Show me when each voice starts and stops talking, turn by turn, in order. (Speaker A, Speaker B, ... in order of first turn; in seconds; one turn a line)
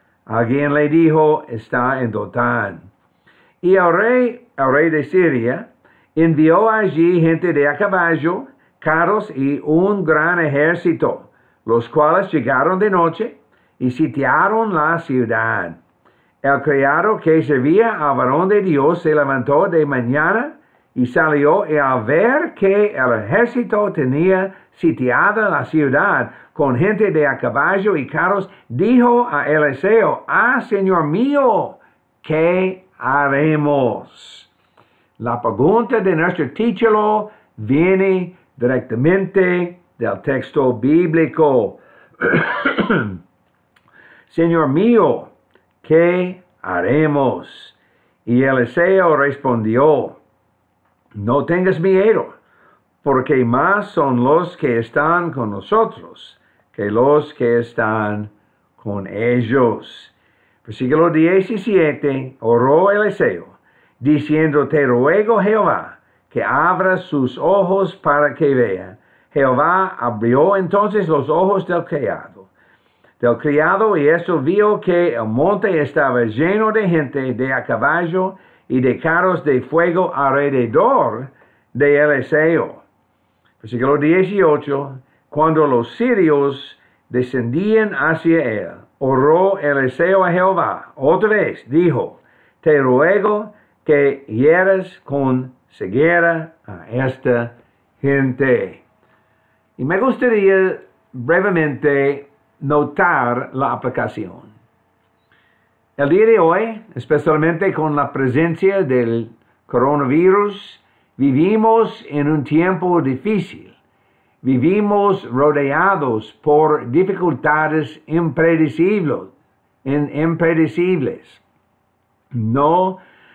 Speaker A: 0.3-2.9
Speaker A: 3.6-15.8
Speaker A: 16.4-34.5
Speaker A: 35.2-43.2
Speaker A: 44.3-50.2
Speaker A: 51.1-52.4
Speaker A: 53.0-72.5
Speaker A: 73.2-82.8
Speaker A: 83.6-98.8
Speaker A: 99.8-104.5
Speaker A: 106.0-113.8
Speaker A: 114.4-119.3
Speaker A: 119.8-121.4
Speaker A: 122.3-123.0